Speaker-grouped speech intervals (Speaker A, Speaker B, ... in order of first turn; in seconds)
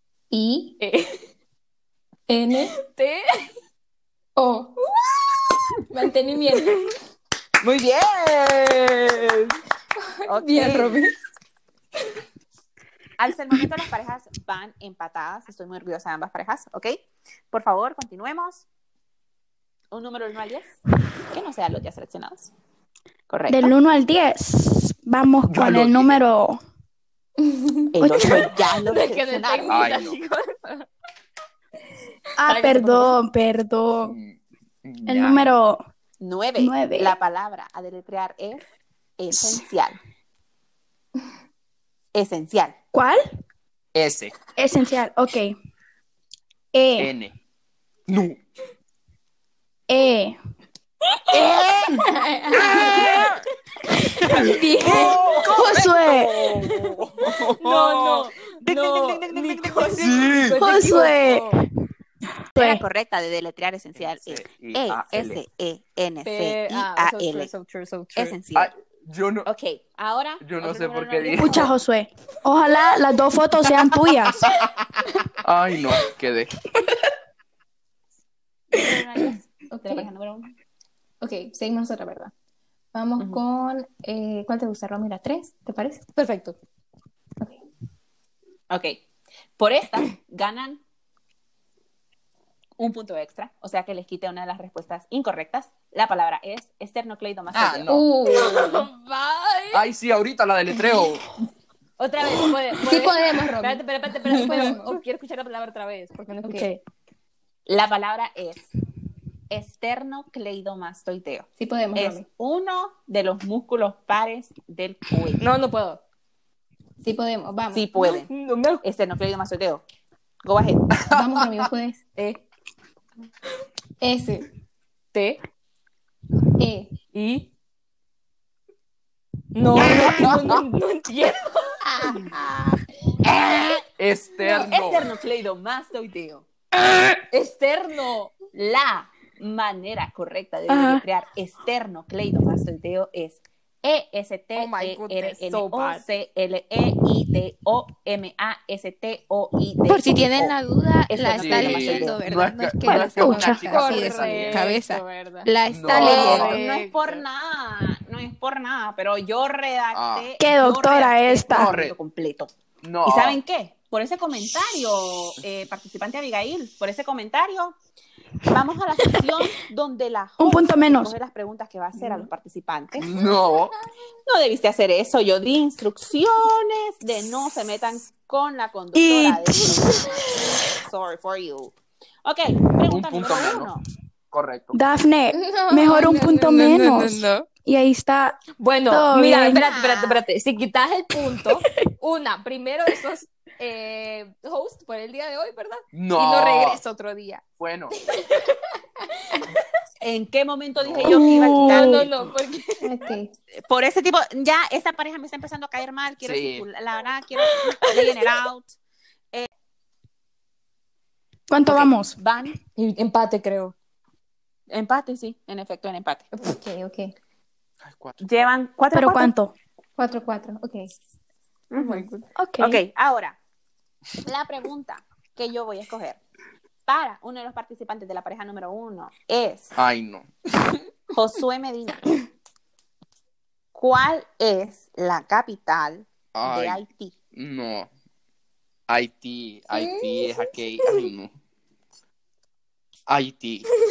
Speaker A: 0.3-0.8, 2.3-2.8, 4.4-4.8, 5.9-6.8, 10.2-11.2, 27.4-27.8, 52.1-53.1, 54.6-55.2, 79.7-80.1, 81.2-82.3, 82.9-86.1, 97.9-98.9, 102.8-105.0, 106.4-106.7, 111.6-112.3, 117.0-117.9, 121.1-122.0, 124.0-124.5, 126.6-127.0, 185.3-186.4, 202.8-203.3, 216.3-217.1, 220.0-220.9, 221.8-222.2, 239.7-240.4
Speaker B: 0.8-1.2, 2.8-3.5, 28.2-30.9, 32.5-33.1, 52.8-53.0, 54.3-55.1, 57.6-61.6, 66.2-68.4, 86.1-86.6, 98.3-99.8, 102.0-106.8, 115.4-116.0, 118.0-118.8, 122.2-122.4, 125.1-125.4, 127.1-127.5, 129.5-132.4, 137.3-138.4, 144.6-146.1, 153.6-157.2, 186.4-187.4, 188.6-197.4, 198.1-198.6, 201.7-202.9, 208.0-208.2, 212.8-213.7
Speaker C: 7.6-9.5, 10.3-11.0, 13.2-17.0, 17.5-18.6, 19.9-20.7, 21.3-22.5, 23.3-23.7, 27.9-29.9, 36.2-38.6, 39.2-40.0, 42.1-42.8, 51.3-52.0, 52.5-53.5, 54.9-56.1, 58.6-60.4, 62.6-67.5, 68.2-68.7, 69.5-71.7, 78.7-80.5, 88.7-89.0, 89.6-90.8, 92.8-97.9, 107.7-108.7, 109.5-115.5, 117.7-118.3, 118.8-119.8, 120.4-120.9, 133.3-133.8, 134.4-136.5, 138.5-150.6, 151.1-152.2, 155.9-162.5, 163.0-167.8, 168.5-173.1, 174.3-181.7, 182.2-183.8, 189.5-190.2, 200.0-202.1, 203.6-208.7, 211.7-212.6, 214.7-216.3, 218.2-219.3, 221.7-223.4, 224.2-226.2, 226.9-229.8, 231.1-232.1, 233.7-237.2
Speaker D: 23.5-26.6, 32.4-34.2, 35.1-35.8, 36.6-37.2, 42.9-43.2, 44.6-45.5, 46.7-47.1, 49.9-50.4, 55.5-56.4, 60.5-61.6, 62.5-62.8, 71.3-74.5, 140.7-141.0, 152.9-153.7, 160.4-161.7, 170.4-171.1, 178.9-180.0, 184.7-189.7, 201.1-202.1, 211.5-212.2, 218.9-219.5, 222.4-222.8
Speaker E: 25.5-26.2, 29.7-30.2, 34.0-35.5, 43.9-44.4, 47.0-47.3, 48.1-48.4, 52.6-53.2, 54.3-58.3, 59.8-60.6, 64.0-65.4, 68.5-69.5, 70.4-71.7, 75.4-76.5, 97.5-98.1, 99.7-101.2, 121.0-121.7, 130.0-130.5, 134.0-135.1, 151.4-154.6, 155.7-156.6, 159.9-160.3, 161.5-161.9, 162.8-163.4, 173.0-173.8, 182.9-183.7, 184.3-184.8, 195.9-196.8, 197.6-197.9, 200.8-201.3, 206.2-206.7, 217.8-218.4, 229.8-230.3, 236.3-236.8, 237.3-237.9, 238.9-241.3, 243.1-243.7
Speaker F: 54.4-55.2, 149.9-156.6